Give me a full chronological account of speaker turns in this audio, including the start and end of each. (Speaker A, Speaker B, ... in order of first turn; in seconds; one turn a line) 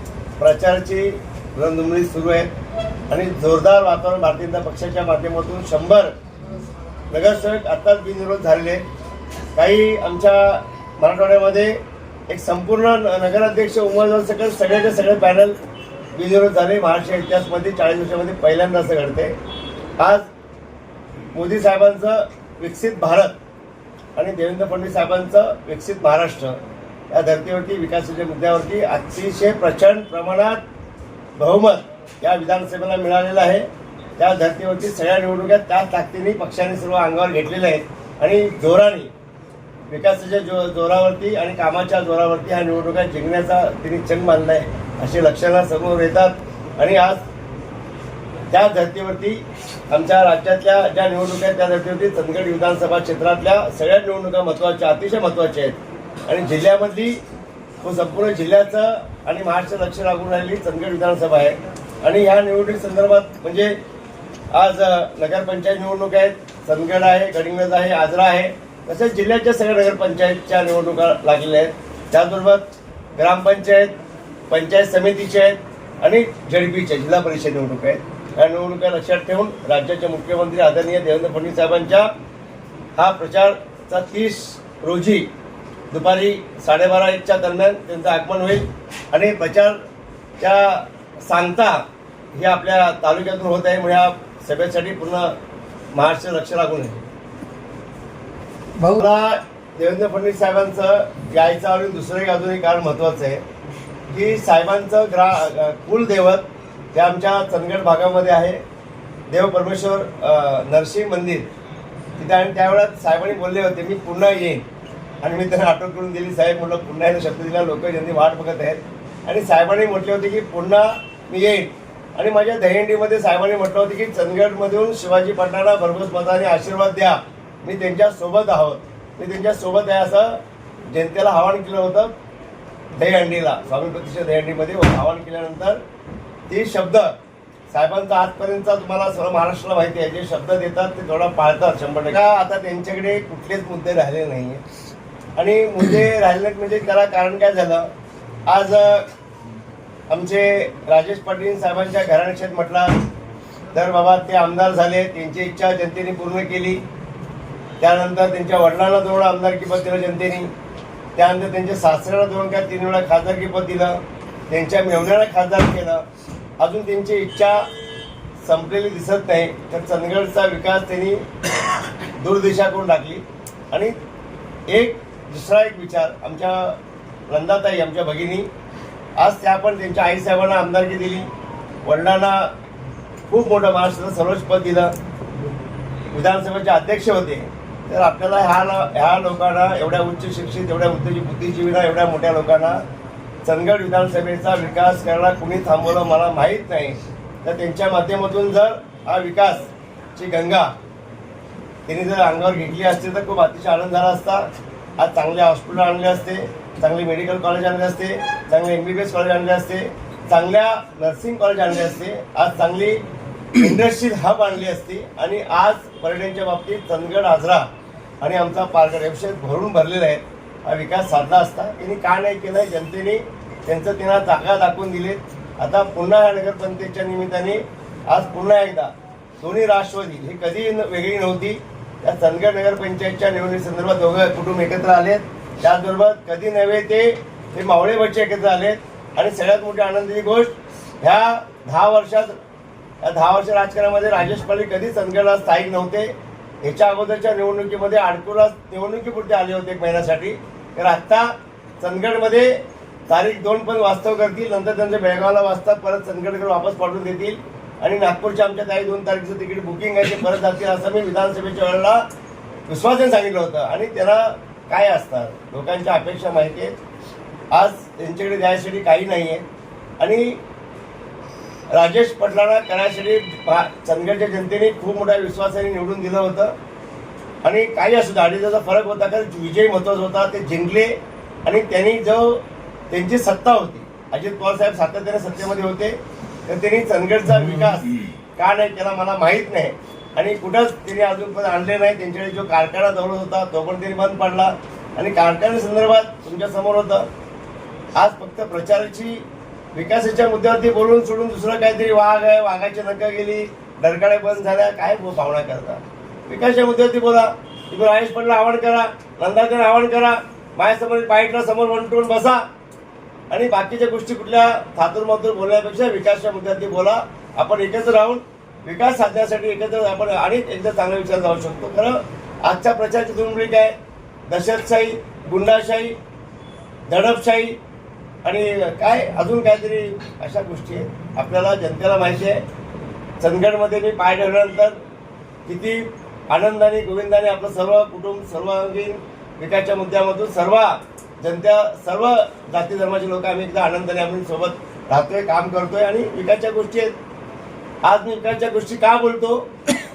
Speaker A: 0.4-2.5
Speaker A: 3.1-6.1
Speaker A: 7.1-8.9
Speaker A: 9.6-15.6
Speaker A: 16.1-19.4
Speaker A: 20.0-20.2
Speaker A: 21.3-23.4
Speaker A: 24.1-26.6
Speaker A: 27.1-30.6
Speaker A: 31.4-33.7
Speaker A: 34.2-39.1
Speaker A: 39.9-47.2
Speaker A: 48.5-57.2
Speaker A: 57.8-63.8
Speaker A: 64.5-73.9
Speaker A: 74.5-82.1
Speaker A: 83.0-85.3
Speaker A: 85.9-89.8
Speaker A: 90.4-91.8
Speaker A: 92.3-95.3
Speaker A: 95.9-97.0
Speaker A: 98.9-103.4
Speaker A: 104.1-108.6
Speaker A: 109.3-111.5
Speaker A: 112.2-114.6
Speaker A: 115.2-132.2
Speaker A: 132.9-135.8
Speaker A: 136.5-137.2
Speaker A: 137.7-144.6
Speaker A: 145.4-147.9
Speaker A: 148.5-149.1
Speaker A: 150.1-152.9
Speaker A: 153.7-156.8
Speaker A: 157.8-160.5
Speaker A: 161.2-166.0
Speaker A: 166.6-167.6
Speaker A: 168.4-171.2
Speaker A: 172.2-173.9
Speaker A: 174.7-176.8
Speaker A: 177.3-178.5
Speaker A: 179.2-181.3
Speaker A: 181.8-182.5
Speaker A: 183.3-184.9
Speaker A: 186.1-192.8
Speaker A: 193.4-200.7
Speaker A: 201.9-204.5
Speaker A: 205.0-213.0
Speaker A: 213.5-217.7
Speaker A: 218.2-242.3
Speaker A: 243.0-246.1
Speaker A: 246.6-252.6
Speaker A: 253.1-262.0
Speaker A: 262.7-266.7
Speaker A: 267.5-269.4
Speaker A: 270.0-270.4
Speaker A: 271.7-276.5
Speaker A: 277.4-286.0
Speaker A: 286.5-297.1
Speaker A: 298.0-312.4
Speaker A: 313.3-323.8
Speaker A: 324.3-325.9
Speaker A: 326.9-327.6
Speaker A: 328.2-332.4
Speaker A: 333.2-334.8
Speaker A: 335.4-346.9
Speaker A: 347.8-349.5